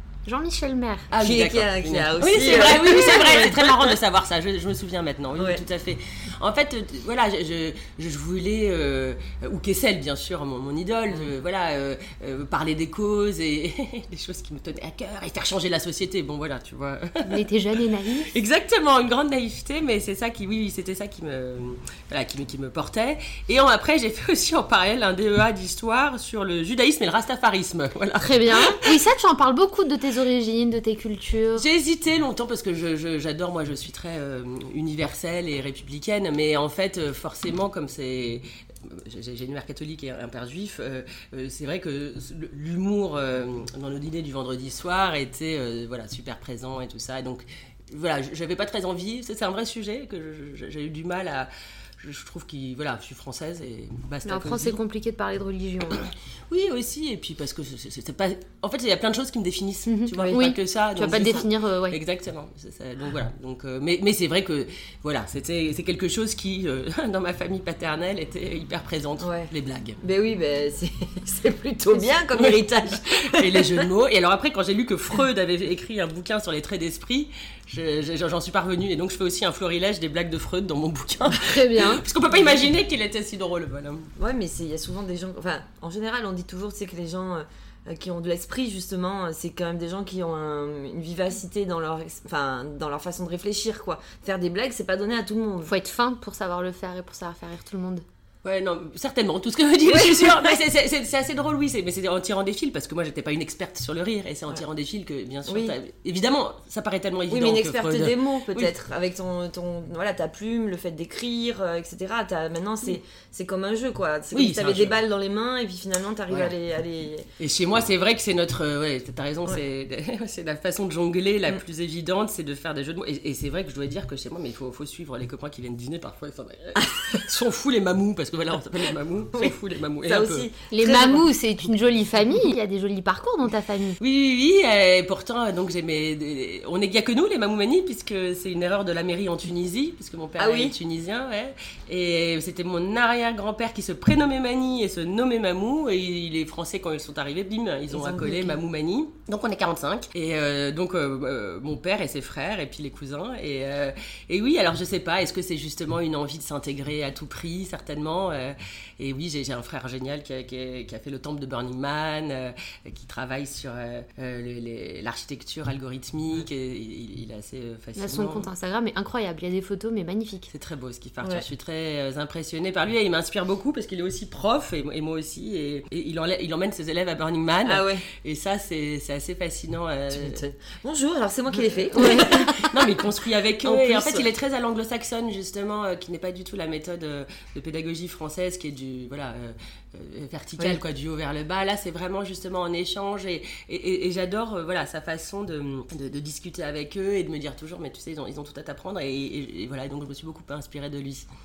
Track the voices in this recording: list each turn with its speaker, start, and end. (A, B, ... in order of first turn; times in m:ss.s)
0:00.2-0:01.1 A
0:01.1-0:17.4 B
0:01.2-0:04.0 C
0:05.4-0:05.6 C
0:17.2-0:18.3 A
0:18.3-0:29.0 B
0:28.2-0:31.6 A
0:31.6-0:54.8 B
0:54.2-0:56.0 A
0:56.0-1:10.0 B
0:59.9-1:02.0 A
1:09.2-1:09.5 C
1:10.0-1:13.9 C
1:12.4-1:24.1 B
1:21.3-1:22.0 A
1:24.2-1:35.7 C
1:35.6-1:38.0 A
1:38.4-1:48.7 B
1:39.9-1:40.5 C
1:45.5-1:45.8 C
1:47.3-1:57.3 C
1:54.3-1:55.0 B
1:57.4-2:10.5 B
2:10.0-2:11.2 C
2:10.7-2:14.0 A
2:14.0-2:48.5 B
2:20.4-2:20.8 C
2:27.9-2:28.6 C
2:48.0-2:50.5 A
2:50.5-3:00.4 B
2:57.6-2:58.0 C
3:00.1-3:04.3 C
3:01.9-3:21.3 B
3:01.9-3:02.4 A